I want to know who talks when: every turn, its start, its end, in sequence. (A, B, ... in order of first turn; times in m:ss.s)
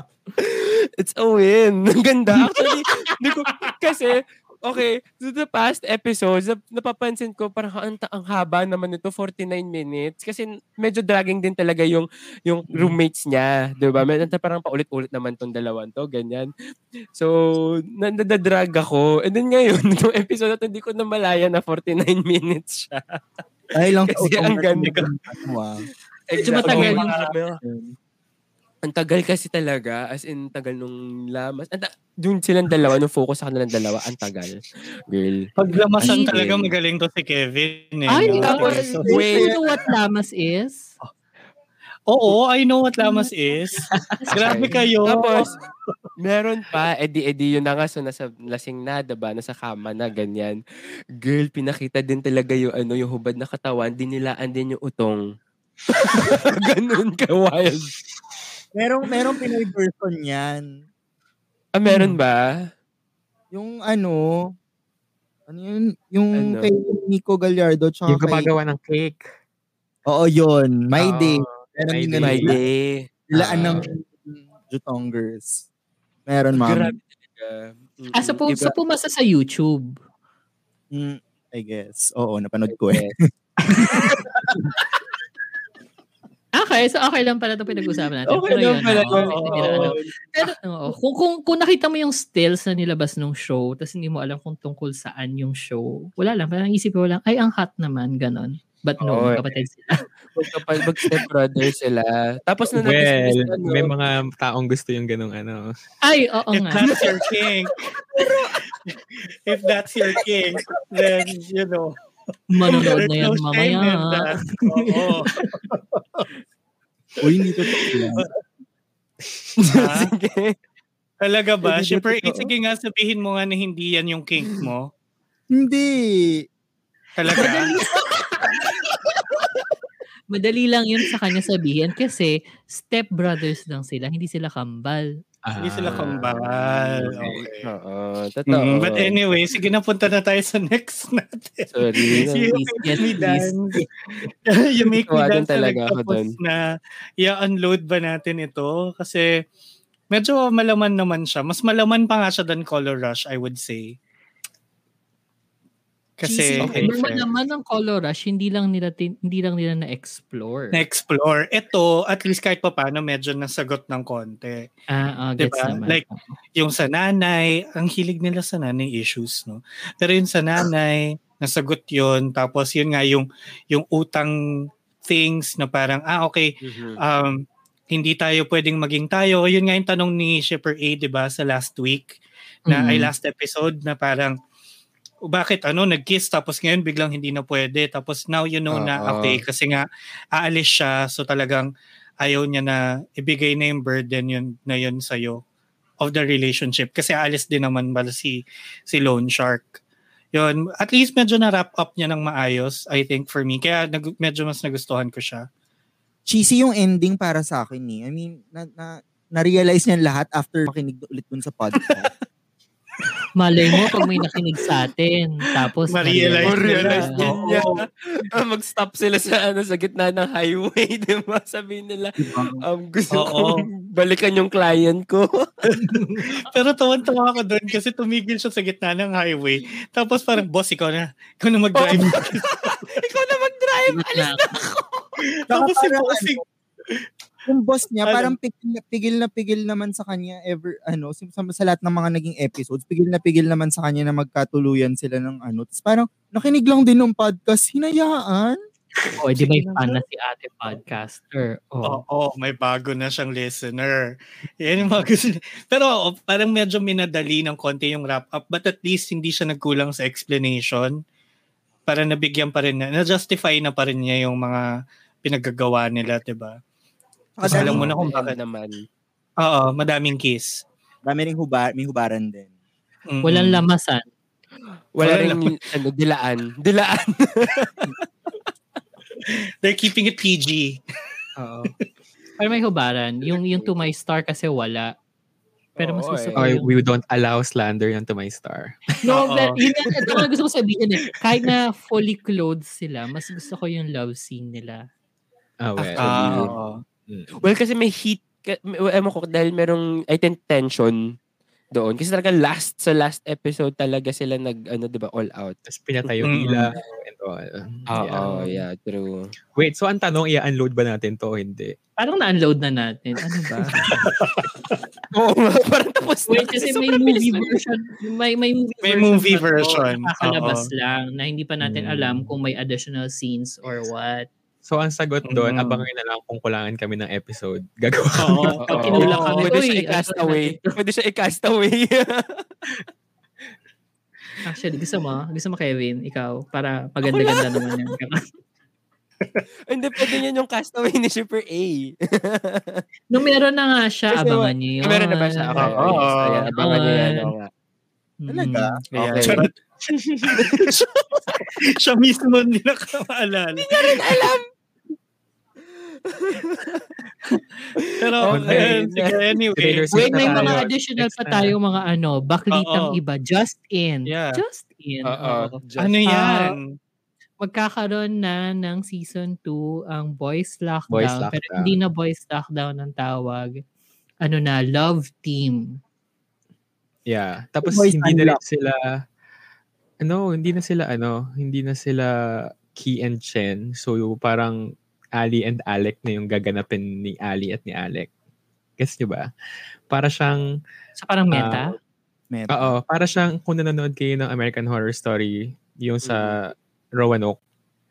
0:00.4-0:16.5 A
0:17.1-0:23.2 A
0:23.7-0:25.8 B
0:24.2-0:25.0 A
0:24.8-0:25.1 C
0:26.3-0:27.6 A
0:26.4-0:27.2 D
0:26.6-0:27.3 C
0:28.8-0:35.5 A
0:35.6-0:39.1 C
0:36.0-0:36.4 D
0:36.0-0:36.7 A
0:38.1-0:40.8 D
0:38.4-0:39.6 A
0:38.8-0:39.9 B
0:42.1-0:45.9 C
0:43.0-0:44.9 D
0:44.3-0:45.5 A
0:46.2-0:50.6 A
0:51.2-0:55.2 A
0:55.9-0:57.9 A
0:58.7-1:00.6 B
1:01.8-1:02.4 A
1:01.9-1:02.2 D
1:03.5-1:04.2 B
1:05.5-1:08.5 B
1:06.4-1:06.7 A
1:08.1-1:09.3 E
1:10.1-1:12.6 B
1:11.0-1:12.6 E
1:12.2-1:13.0 A
1:13.3-1:15.6 B
1:13.3-1:13.9 E
1:16.3-1:17.0 B
1:16.5-1:18.7 A
1:18.2-1:19.9 D
1:20.9-1:24.2 B
1:22.7-1:23.1 A
1:26.6-1:39.9 D
1:28.3-1:30.1 A
1:29.0-1:30.0 C
1:39.0-1:39.4 A
1:40.4-1:43.9 A
1:42.8-1:45.6 E
1:46.0-1:46.9 D
1:46.5-1:47.9 C
1:46.8-1:47.2 A
1:48.9-1:51.9 C
1:52.5-1:55.5 D
1:52.6-1:56.2 C
1:57.2-1:58.2 B
1:59.6-2:00.1 C
1:59.7-2:00.5 A
2:01.2-2:04.9 C
2:01.7-2:02.5 A
2:05.6-2:06.3 B
2:07.2-2:07.7 C
2:07.3-2:08.6 D
2:10.3-2:15.1 D
2:15.4-2:17.4 E
2:15.6-2:17.7 C
2:17.6-2:19.2 A
2:18.5-2:26.6 C
2:21.7-2:22.5 A
2:22.5-2:23.5 D
2:25.0-2:26.4 A
2:27.2-2:29.2 C
2:30.1-2:33.9 C
2:36.2-2:37.3 C
2:36.2-2:40.8 D
2:36.6-2:36.9 A
2:40.7-2:44.7 C
2:44.9-2:46.2 D
2:45.4-2:46.0 C
2:46.6-2:54.3 C
2:55.1-2:57.4 C
2:56.6-2:57.0 A
2:57.9-3:02.2 C
3:02.7-3:03.1 D
3:02.7-3:04.3 C
3:05.3-3:09.8 C
3:08.7-3:09.4 A
3:10.4-3:11.7 C
3:12.2-3:15.4 C
3:16.0-3:18.4 C
3:18.9-3:19.8 C
3:20.3-3:25.4 C
3:26.3-3:32.1 B
3:33.4-3:37.3 D
3:35.9-3:37.8 C
3:36.4-3:45.4 A
3:43.1-3:43.7 C
3:45.7-3:52.8 C
3:51.8-3:54.7 A
3:53.9-3:54.8 D
3:55.3-3:57.0 C
3:55.5-3:56.4 B
3:57.5-4:08.6 B
3:58.0-3:58.3 C
4:09.1-4:12.0 D
4:09.3-4:10.0 C
4:11.8-4:14.0 C
4:14.6-4:21.0 C
4:21.9-4:24.6 C
4:25.2-4:26.6 C
4:27.4-4:27.8 B
4:27.4-4:28.4 C
4:27.5-4:28.8 A
4:29.4-4:30.6 C
4:31.0-4:32.5 B
4:33.1-4:33.6 C
4:33.2-4:34.0 D
4:34.9-4:37.9 A
4:35.0-4:35.6 C
4:39.2-4:40.8 C
4:41.4-4:41.7 D
4:42.4-4:44.9 D
4:45.8-4:46.5 A
4:45.8-4:46.8 D
4:46.4-4:48.9 E
4:49.0-4:50.1 C
4:49.0-4:54.8 D
4:55.6-4:56.5 E
4:55.9-4:56.5 A
4:56.0-4:56.8 C
4:57.1-4:57.5 E
4:57.4-5:01.0 A
5:01.8-5:06.1 A
5:05.7-5:08.6 E
5:06.2-5:06.7 C
5:07.9-5:09.3 A
5:09.6-5:11.8 E
5:12.0-5:14.1 D
5:14.0-5:14.8 C
5:15.1-5:17.6 A
5:16.3-5:24.3 D
5:18.8-5:20.7 C
5:21.6-5:22.3 E
5:24.6-5:29.0 E
5:25.2-5:25.8 C
5:28.2-5:29.5 C
5:28.6-5:32.8 A
5:28.7-5:30.7 D
5:34.4-5:38.2 D
5:37.1-5:37.8 A
5:39.7-5:42.8 A
5:43.1-5:47.3 D
5:44.1-5:47.5 A
5:45.6-5:46.5 C
5:48.2-5:48.7 D
5:48.3-5:48.8 B
5:48.9-5:49.6 C
5:49.0-5:49.5 A
5:50.3-5:50.8 C
5:50.3-5:51.0 A
5:51.4-5:54.0 C
5:53.6-5:54.4 A
5:56.0-5:57.0 A
5:57.8-5:59.4 A
5:58.0-6:00.6 C
5:58.3-5:58.8 E
5:59.5-6:01.5 E
5:59.9-6:05.5 D
6:02.5-6:03.0 C
6:04.1-6:04.4 C
6:05.0-6:06.4 A
6:05.8-6:06.6 C
6:06.0-6:06.6 D
6:07.4-6:13.5 D
6:10.9-6:11.8 E
6:14.2-6:15.8 D
6:17.1-6:18.8 E
6:17.6-6:18.4 B
6:20.0-6:28.1 E
6:28.8-6:29.3 E
6:29.9-6:30.4 E
6:31.0-6:31.7 D
6:31.3-6:31.6 E
6:32.3-6:32.8 B
6:32.5-6:37.4 E
6:36.0-6:36.3 A